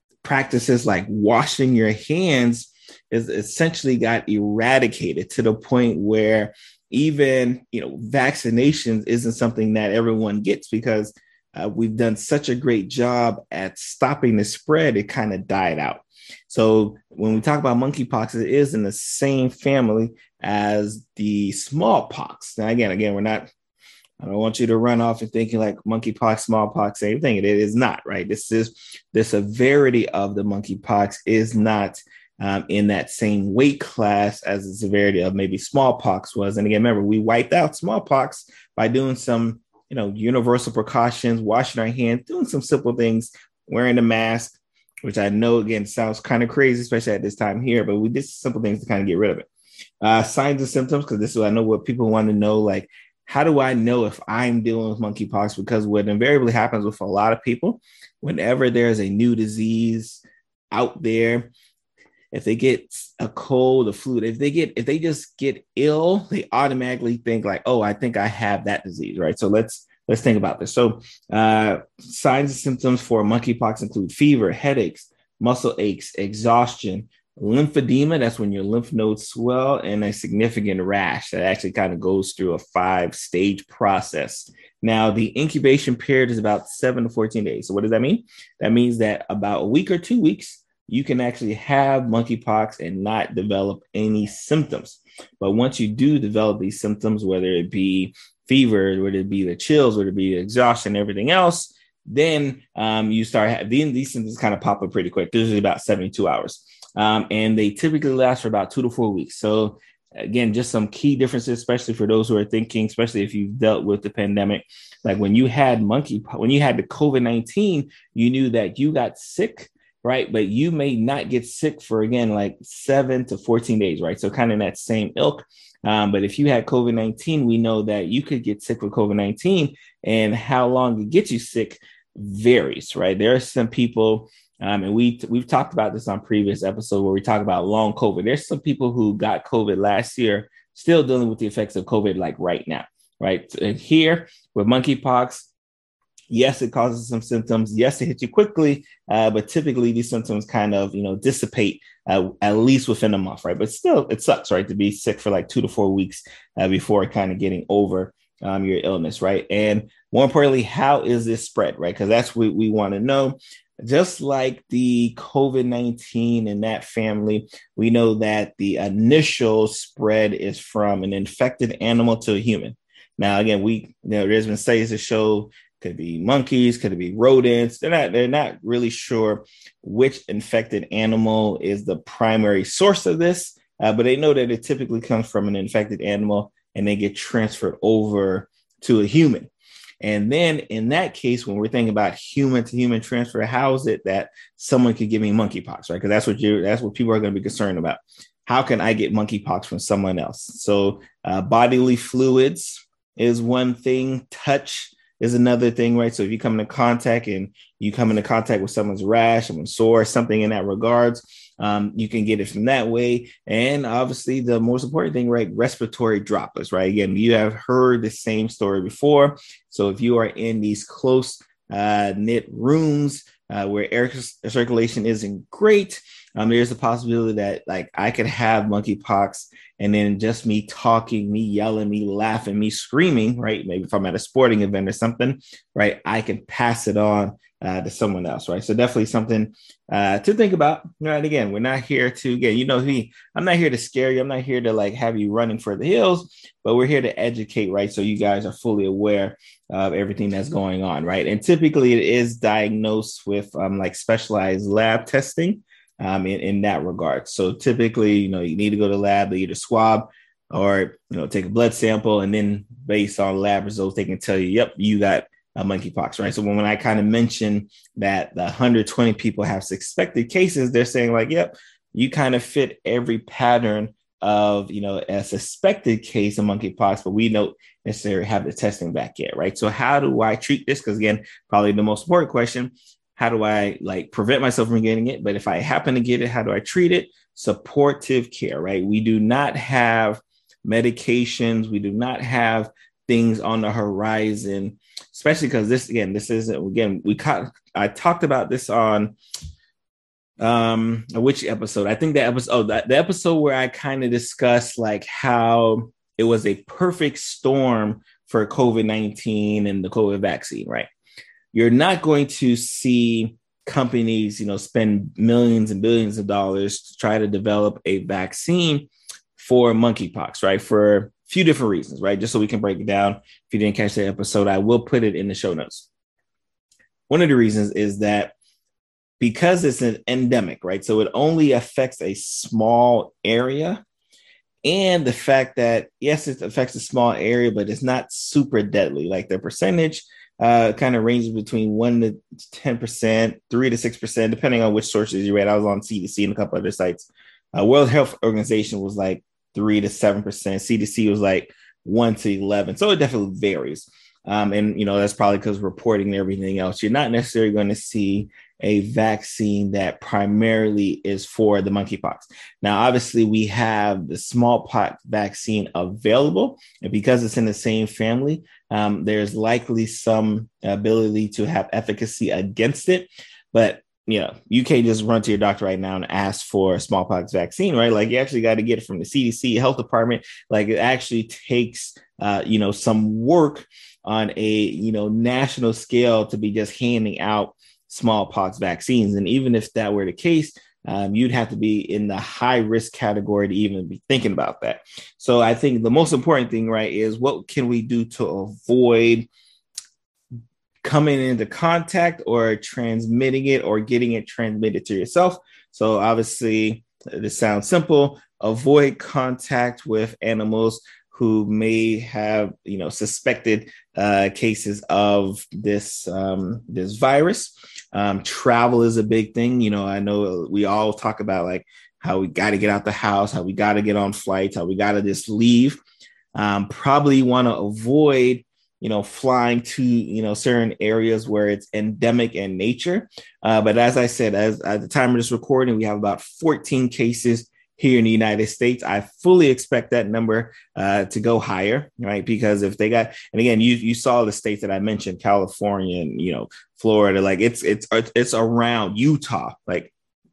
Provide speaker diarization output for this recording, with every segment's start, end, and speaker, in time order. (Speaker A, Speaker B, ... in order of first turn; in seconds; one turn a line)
Speaker A: 0.2-23.5
Speaker A: 24.2-49.5
Speaker A: 50.0-61.5
Speaker A: 62.3-145.5
Speaker A: 146.3-189.5
Speaker A: 190.0-299.2
Speaker A: 300.4-310.9
Speaker A: 311.5-325.9
Speaker A: 327.1-328.4
Speaker A: 329.2-333.8
Speaker A: 334.6-399.3
Speaker A: 400.8-425.8
Speaker A: 426.4-449.9